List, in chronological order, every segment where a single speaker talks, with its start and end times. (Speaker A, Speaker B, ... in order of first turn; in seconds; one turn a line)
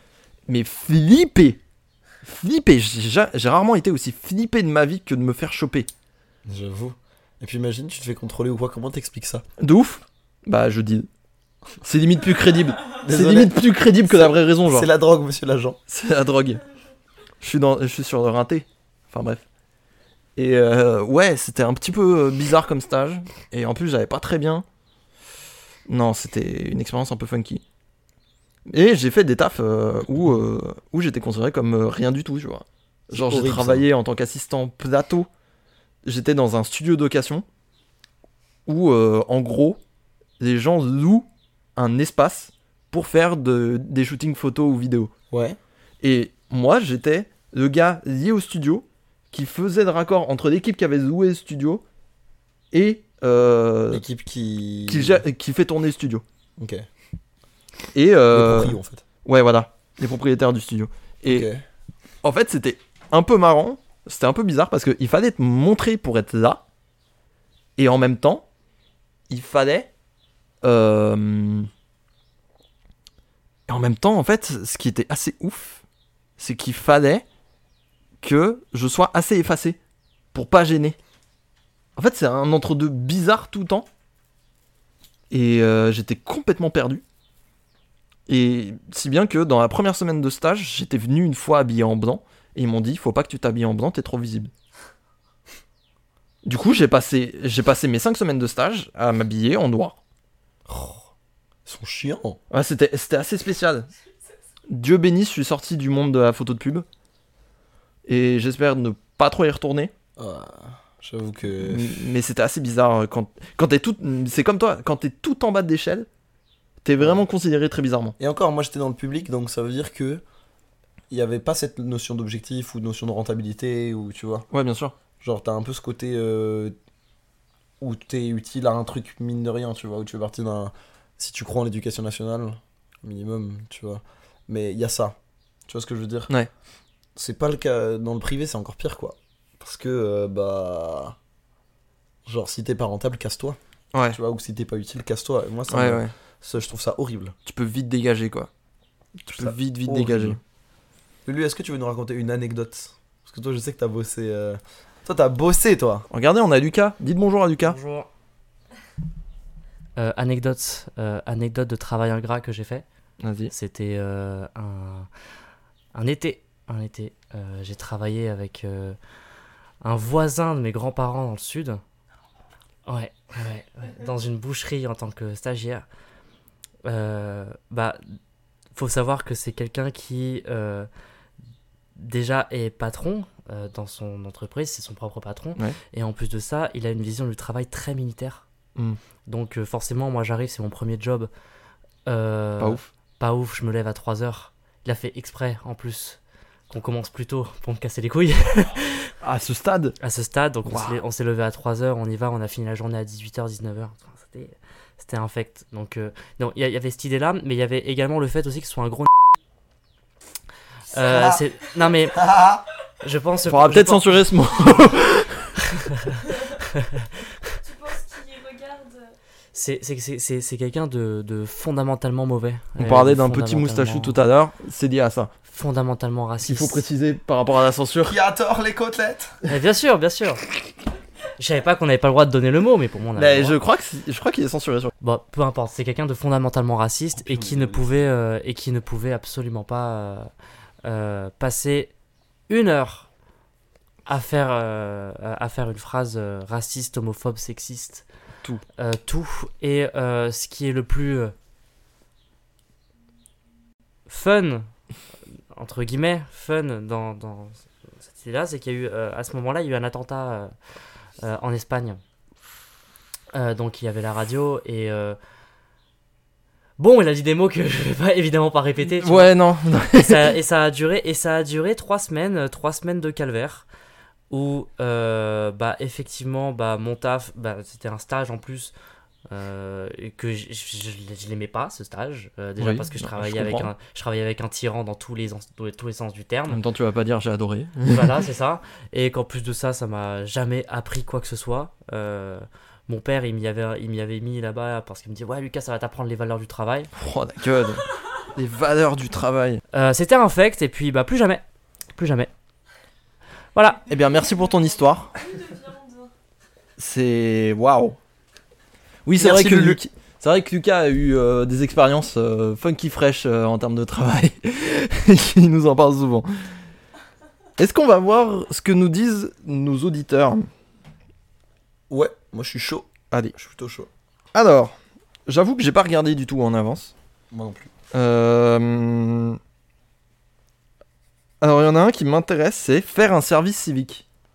Speaker A: 0.5-1.6
Speaker A: 2.2-5.9
Speaker B: 6.5-9.4
Speaker A: 9.6-11.1
Speaker A: 11.8-14.9
Speaker B: 13.0-15.8
Speaker A: 15.9-16.6
Speaker A: 17.4-19.4
Speaker A: 20.4-24.6
Speaker A: 25.9-27.6
Speaker A: 28.7-35.3
Speaker B: 33.1-33.9
Speaker A: 36.0-37.5
Speaker A: 38.7-39.8
Speaker A: 40.4-45.1
Speaker B: 45.3-45.6
Speaker A: 46.0-51.8
Speaker A: 52.7-54.0
Speaker B: 53.9-55.2
Speaker A: 54.9-56.2
Speaker B: 56.6-56.9
Speaker A: 57.9-61.5
Speaker B: 58.3-59.0
Speaker B: 61.3-61.6
Speaker A: 62.2-66.6
Speaker A: 67.8-68.5
Speaker A: 69.3-69.9
Speaker A: 70.6-71.7
Speaker A: 73.7-75.8
Speaker A: 76.4-77.2
Speaker A: 78.2-79.8
Speaker A: 80.3-81.0
Speaker A: 82.0-83.9
Speaker A: 85.3-87.0
Speaker A: 88.3-94.5
Speaker A: 96.4-100.0
Speaker B: 100.7-101.1
Speaker B: 101.7-102.4
Speaker A: 102.5-103.9
Speaker A: 104.7-106.9
Speaker A: 108.1-109.9
Speaker B: 110.2-112.1
Speaker A: 111.6-116.1
Speaker A: 116.8-118.2
Speaker B: 117.0-117.2
Speaker B: 118.2-120.2
Speaker B: 121.1-124.5
Speaker A: 124.5-124.9
Speaker B: 125.2-126.7
Speaker B: 127.8-135.2
Speaker B: 135.7-136.3
Speaker B: 137.2-141.2
Speaker B: 142.3-143.6
Speaker B: 144.1-147.3
Speaker A: 145.7-146.1
Speaker A: 147.5-148.5
Speaker A: 149.2-150.4
Speaker B: 149.3-150.4
Speaker B: 151.2-156.1
Speaker A: 156.1-157.8
Speaker C: 157.6-158.1
Speaker C: 160.0-162.8
Speaker A: 163.2-163.5
Speaker C: 163.5-165.1
Speaker C: 165.9-169.0
Speaker C: 169.8-171.8
Speaker C: 172.9-175.9
Speaker C: 176.8-178.1
Speaker C: 178.7-180.9
Speaker C: 182.0-188.4
Speaker C: 189.3-191.3
Speaker C: 192.1-199.1
Speaker A: 192.6-192.9
Speaker A: 199.2-200.0
Speaker C: 200.0-209.1
Speaker A: 200.7-201.0
Speaker C: 210.9-212.3
Speaker B: 211.1-211.4
Speaker B: 212.1-212.6
Speaker C: 213.0-214.3
Speaker A: 213.4-215.6
Speaker C: 215.7-217.3
Speaker D: 217.6-219.1
Speaker C: 219.5-224.2
Speaker A: 222.8-225.3
Speaker C: 225.5-226.8
Speaker A: 226.4-228.2
Speaker B: 228.1-229.5
Speaker C: 229.5-230.5
Speaker C: 231.4-233.6
Speaker A: 233.2-234.9
Speaker C: 235.0-240.3
Speaker B: 237.2-237.9
Speaker C: 240.8-241.9
Speaker C: 242.5-243.1
Speaker C: 244.1-248.1
Speaker C: 248.8-251.3
Speaker C: 254.1-254.7
Speaker C: 255.5-260.5
Speaker C: 261.2-262.0
Speaker C: 263.3-265.2
Speaker C: 266.8-269.3
Speaker A: 268.8-270.4
Speaker C: 269.9-273.7
Speaker C: 274.3-278.7
Speaker C: 279.3-286.6
Speaker A: 282.6-283.7
Speaker A: 286.5-288.2
Speaker C: 287.9-296.9
Speaker A: 296.9-299.6
Speaker C: 299.7-301.4
Speaker C: 301.9-302.3
Speaker C: 303.6-303.8
Speaker A: 303.9-305.2
Speaker D: 305.1-306.1
Speaker A: 306.8-308.0
Speaker A: 309.1-316.6
Speaker B: 309.2-309.8
Speaker A: 317.6-320.5
Speaker B: 321.9-323.9
Speaker A: 324.3-324.8
Speaker A: 325.3-326.9
Speaker B: 327.3-327.7
Speaker A: 327.9-329.4
Speaker A: 331.4-334.1